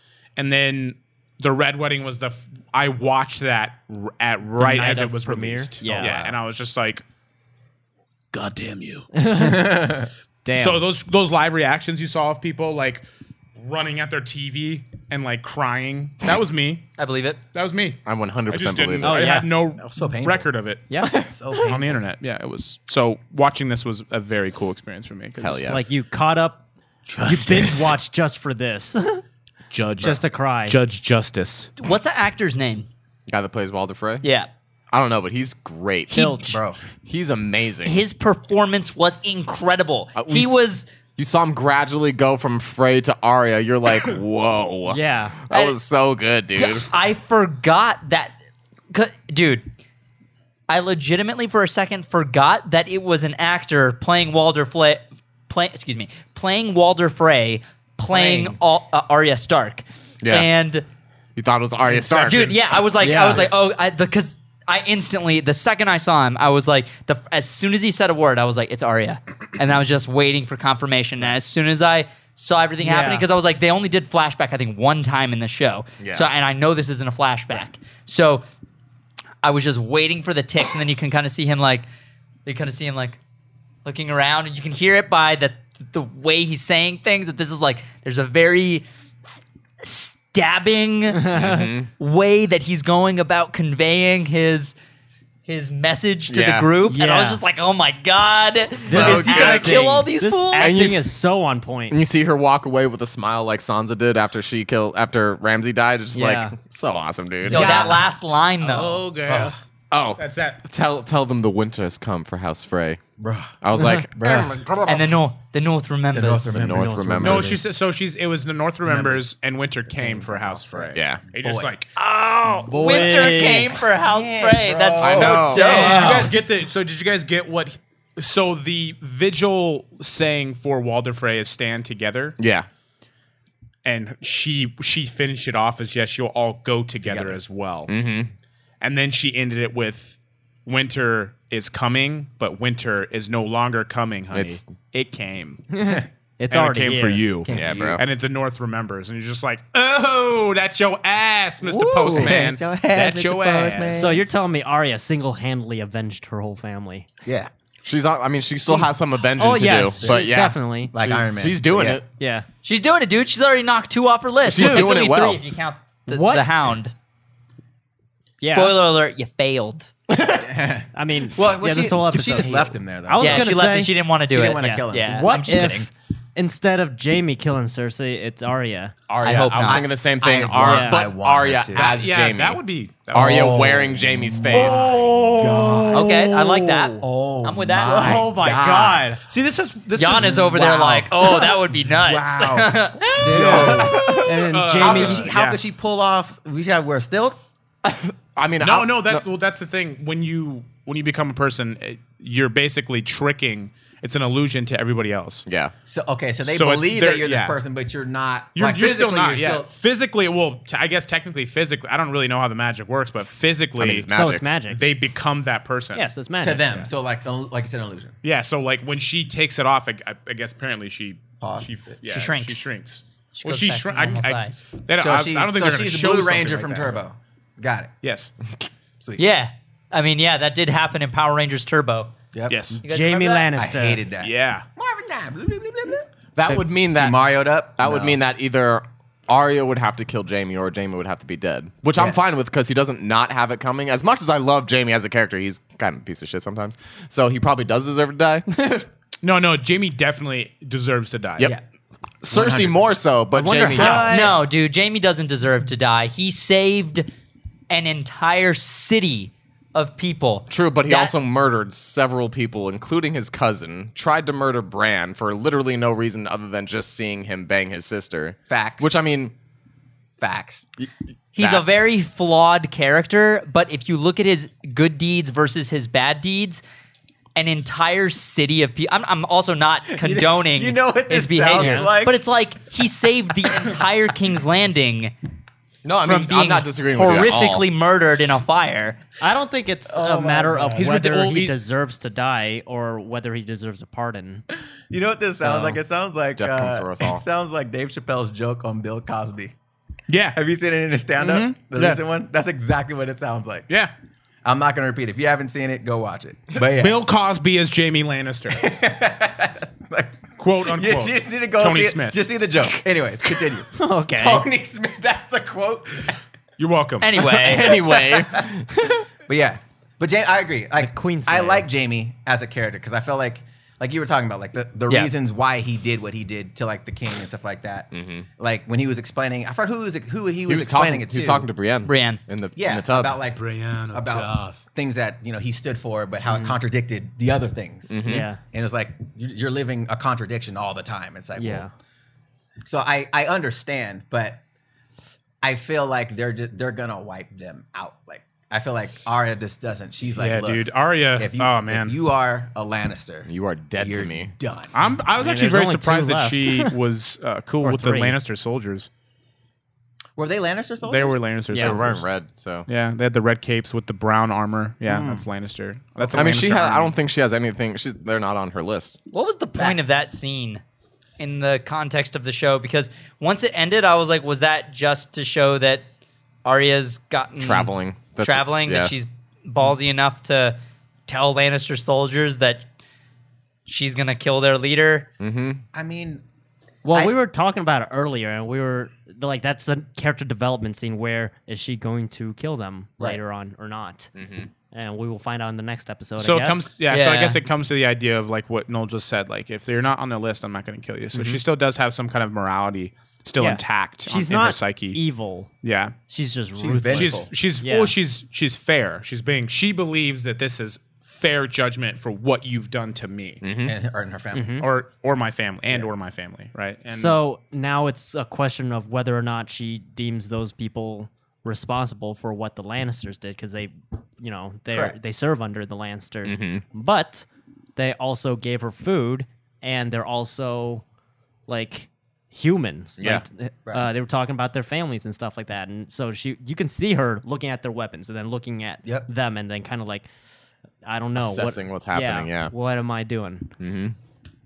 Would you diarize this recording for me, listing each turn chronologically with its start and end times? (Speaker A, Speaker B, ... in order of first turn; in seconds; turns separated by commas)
Speaker A: 0.4-7.0, Speaker B: 4.6-6.2, Speaker C: 6.0-6.3, Speaker A: 8.3-9.1, Speaker B: 9.1-10.8, Speaker C: 9.3-10.1, Speaker A: 10.5-13.0, Speaker A: 13.6-16.9, Speaker D: 17.0-17.4, Speaker A: 17.5-25.6, Speaker E: 18.1-19.3, Speaker B: 19.0-19.5, Speaker C: 19.8-20.5, Speaker B: 20.9-21.7, Speaker C: 21.0-22.0, Speaker E: 25.4-25.8, Speaker B: 25.6-26.6, Speaker A: 27.1-28.0, Speaker B: 27.2-29.2, Speaker A: 29.7-31.7, Speaker B: 30.0-30.8, Speaker D: 31.8-32.9, Speaker E: 33.3-34.2, Speaker D: 34.2-34.5, Speaker E: 34.9-36.3, Speaker B: 36.1-36.6, Speaker D: 36.1-36.4, Speaker C: 36.4-36.8, Speaker E: 37.0-38.0, Speaker D: 37.8-40.9, Speaker E: 40.1-40.6, Speaker E: 41.1-46.9, Speaker B: 44.9-45.4, Speaker D: 45.5-45.8, Speaker D: 46.5-48.3, Speaker D: 48.9-49.7, Speaker D: 50.7-60.8, Speaker C: 58.1-58.6, Speaker E: 60.2-60.5, Speaker E: 61.4-62.6, Speaker D: 62.2-78.4, Speaker B: 63.0-63.5, Speaker B: 72.8-73.2, Speaker E: 76.0-76.3, Speaker D: 79.4-81.8, Speaker D: 82.5-83.2, Speaker D: 83.8-88.8, Speaker D: 89.8-94.7, Speaker B: 91.2-91.7, Speaker E: 91.3-91.9, Speaker D: 95.5-100.9, Speaker E: 96.3-96.8, Speaker B: 96.8-97.4, Speaker B: 98.8-102.0, Speaker E: 98.8-99.8, Speaker E: 100.6-101.1, Speaker E: 101.9-108.0, Speaker B: 106.1-106.6, Speaker D: 107.4-109.0, Speaker A: 107.5-108.0, Speaker A: 108.6-109.5, Speaker C: 109.2-109.5, Speaker E: 109.9-113.0, Speaker A: 110.2-110.6, Speaker C: 113.2-114.9, Speaker E: 113.6-114.9, Speaker D: 114.8-116.6, Speaker C: 116.1-117.5, Speaker E: 116.5-117.6, Speaker B: 116.7-117.6, Speaker A: 117.2-121.9, Speaker C: 118.8-119.3, Speaker C: 119.9-121.7, Speaker E: 120.9-121.3, Speaker D: 122.0-126.3, Speaker B: 122.6-123.8, Speaker C: 122.8-126.3, Speaker E: 125.0-125.8, Speaker A: 125.1-132.4, Speaker B: 125.9-126.2, Speaker E: 132.4-132.7, Speaker A: 133.8-137.9, Speaker C: 137.1-137.3, Speaker E: 137.9-138.3, Speaker A: 138.8-145.6, Speaker E: 144.3-144.6, Speaker B: 145.7-147.2, Speaker A: 146.5-154.2, Speaker C: 147.4-148.0, Speaker E: 147.5-148.0, Speaker B: 151.7-152.4, Speaker C: 151.9-154.2, Speaker B: 153.9-157.1, Speaker C: 157.2-157.5, Speaker E: 157.8-162.1, Speaker B: 159.3-160.9, Speaker C: 160.0-160.3, Speaker C: 160.9-162.0, Speaker B: 162.2-162.4, Speaker D: 162.6-166.9, Speaker E: 164.4-165.4, Speaker B: 164.6-165.0, Speaker B: 166.1-166.5, Speaker B: 168.4-168.8, Speaker D: 168.4-169.9, Speaker E: 170.1-170.4, Speaker C: 170.3-173.7, Speaker B: 170.9-173.9, Speaker D: 173.2-175.9, Speaker C: 174.3-175.8, Speaker B: 174.6-179.0, Speaker E: 179.1-182.6, Speaker D: 179.2-179.8, Speaker C: 179.6-181.9, Speaker B: 180.6-181.1, Speaker A: 181.7-183.7, Speaker E: 183.1-185.0, Speaker C: 183.1-186.2, Speaker A: 184.5-184.8, Speaker B: 184.6-187.0, Speaker D: 185.9-188.2, Speaker C: 187.0-189.0, Speaker B: 187.8-189.2, Speaker E: 188.4-189.0, Speaker A: 189.2-190.6, Speaker D: 189.9-193.1, Speaker C: 190.1-197.5, Speaker A: 193.2-195.6, Speaker B: 193.2-195.3, Speaker E: 193.5-194.2, Speaker E: 197.8-199.2, Speaker A: 198.6-205.4, Speaker E: 205.4-205.7, Speaker C: 205.8-209.7, Speaker A: 206.4-207.6, Speaker A: 208.5-214.1, Speaker E: 213.8-214.5, Speaker B: 214.1-214.8, Speaker A: 214.7-216.1, Speaker B: 215.9-216.8, Speaker C: 216.4-218.1, Speaker A: 218.2-227.0, Speaker C: 221.4-222.0, Speaker D: 222.0-222.7, Speaker D: 223.3-224.6, Speaker C: 225.0-227.9, Speaker A: 228.0-228.3, Speaker D: 229.2-232.1, Speaker C: 232.3-232.8, Speaker A: 232.5-232.8, Speaker D: 232.8-233.5, Speaker B: 232.8-234.0, Speaker C: 233.5-236.1, Speaker A: 234.2-234.7, Speaker E: 236.3-237.2, Speaker C: 236.9-238.2, Speaker E: 237.8-248.9, Speaker A: 249.2-251.5, Speaker E: 252.2-254.2, Speaker C: 252.3-252.8, Speaker B: 253.3-254.4, Speaker D: 253.8-257.1, Speaker D: 257.7-261.1, Speaker E: 260.5-269.3, Speaker C: 268.5-268.9, Speaker C: 270.2-270.7, Speaker E: 270.8-271.6, Speaker D: 271.3-276.6, Speaker D: 277.3-285.1, Speaker C: 279.9-282.2, Speaker B: 281.5-281.9, Speaker E: 285.8-287.7, Speaker D: 286.0-289.0, Speaker B: 289.2-294.4, Speaker C: 289.9-290.9, Speaker A: 290.7-291.6, Speaker C: 294.9-299.5, Speaker B: 295.4-295.8, Speaker E: 296.4-297.2, Speaker A: 300.1-300.4, Speaker C: 300.3-303.7, Speaker A: 301.2-302.0, Speaker C: 304.4-307.0, Speaker A: 306.6-308.7, Speaker C: 308.5-316.2, Speaker A: 310.4-312.2, Speaker B: 313.7-314.4, Speaker A: 316.6-317.2, Speaker D: 317.0-317.8, Speaker E: 317.2-319.0, Speaker C: 317.6-318.5, Speaker C: 319.2-331.5, Speaker B: 320.8-321.6, Speaker E: 327.9-328.2, Speaker E: 330.5-333.2, Speaker D: 331.8-332.2, Speaker C: 332.6-341.7, Speaker A: 333.4-334.6, Speaker B: 336.2-336.6, Speaker E: 337.9-338.3, Speaker B: 338.0-338.4, Speaker B: 341.4-341.7, Speaker C: 342.6-344.4, Speaker C: 345.4-354.7, Speaker A: 350.2-351.9, Speaker E: 353.2-354.3, Speaker A: 354.7-358.9, Speaker B: 355.2-356.7, Speaker B: 357.6-358.2, Speaker C: 360.1-361.2, Speaker A: 360.8-362.1, Speaker B: 361.5-361.8, Speaker E: 361.5-362.7, Speaker A: 362.7-366.9, Speaker C: 364.8-365.3, Speaker C: 366.0-366.6, Speaker E: 366.1-369.0, Speaker D: 369.1-370.6, Speaker C: 369.6-369.9, Speaker D: 371.2-375.9, Speaker D: 376.4-382.6, Speaker E: 377.4-378.9, Speaker D: 383.6-385.1, Speaker E: 385.2-385.6, Speaker C: 385.7-386.2, Speaker B: 386.8-394.1, Speaker C: 386.9-387.2, Speaker E: 394.1-394.5, Speaker B: 394.7-396.7, Speaker A: 396.2-405.0, Speaker D: 396.9-397.4, Speaker B: 401.1-401.4, Speaker B: 403.4-405.5, Speaker A: 405.6-405.9, Speaker B: 406.1-407.9, Speaker C: 406.6-407.3, Speaker A: 406.9-413.4, Speaker E: 413.4-413.7, Speaker C: 413.6-414.7, Speaker B: 414.3-414.7, Speaker A: 414.6-417.2, Speaker B: 416.9-430.8, Speaker C: 424.7-424.9, Speaker E: 426.2-426.6, Speaker B: 431.5-440.1, Speaker E: 433.0-433.2, Speaker B: 440.8-443.5, Speaker E: 441.1-442.5, Speaker E: 443.6-443.9